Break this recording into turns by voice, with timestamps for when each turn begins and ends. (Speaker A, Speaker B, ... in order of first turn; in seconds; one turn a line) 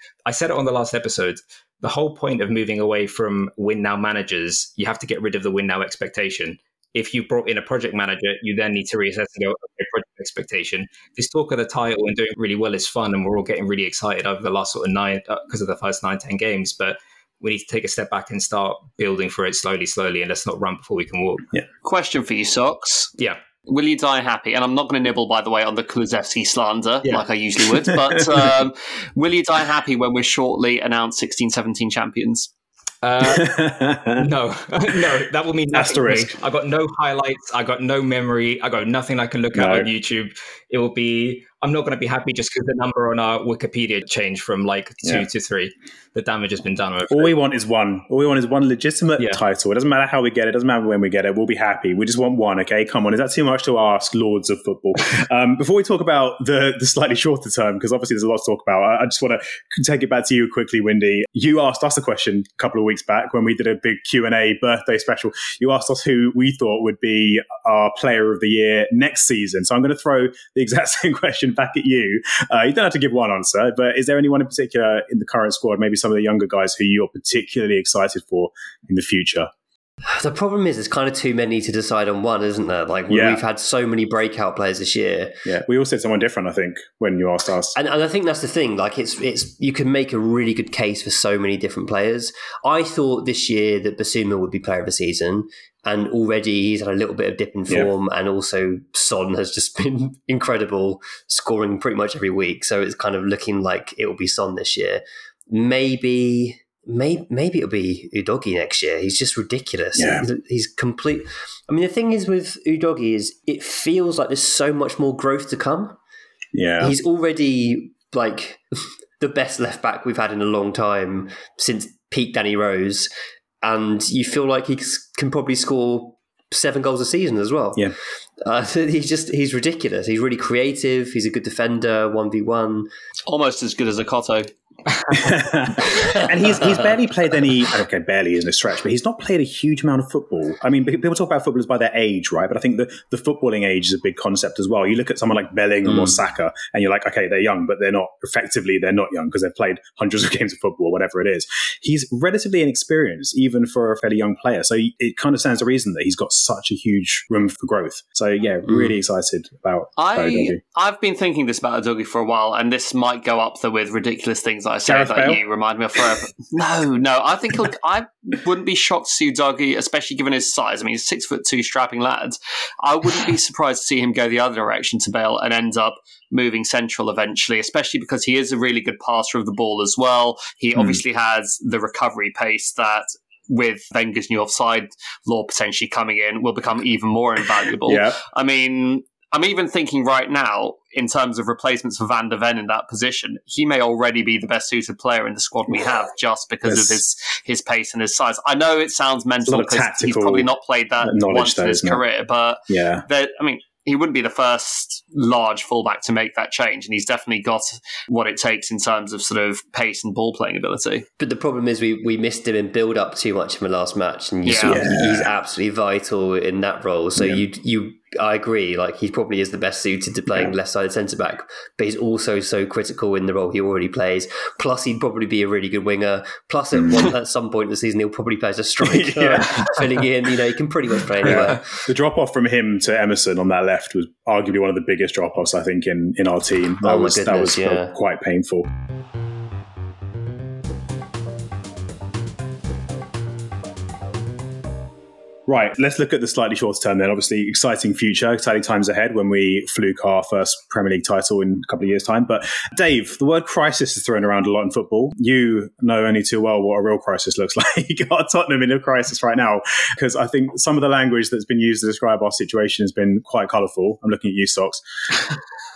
Speaker A: 0.3-21.5
Speaker B: 21.8-23.1
Speaker B: 23.7-32.5
Speaker A: 33.0-33.5
Speaker C: 33.2-34.2
Speaker A: 34.1-47.3
Speaker C: 35.7-36.3
Speaker C: 39.5-39.9
Speaker C: 47.1-79.5
Speaker D: 80.1-85.4
Speaker C: 83.1-83.4
Speaker C: 85.5-87.7
Speaker D: 87.8-116.0
Speaker C: 110.0-110.3
Speaker C: 116.5-116.9
Speaker D: 116.8-118.6
Speaker D: 119.2-123.1
Speaker D: 123.6-132.9
Speaker B: 133.3-134.5
Speaker C: 135.1-160.6
Speaker B: 160.0-211.1
Speaker C: 164.9-165.4
Speaker C: 187.9-188.2
Speaker C: 196.7-197.0
Speaker C: 199.4-200.5
Speaker C: 201.0-202.0
Speaker C: 202.7-203.1
Speaker D: 211.2-231.7
Speaker B: 214.5-214.8
Speaker C: 214.7-215.3
Speaker C: 226.7-227.1
Speaker C: 228.8-229.8
Speaker C: 231.2-238.7
Speaker D: 236.8-238.0
Speaker C: 245.5-264.8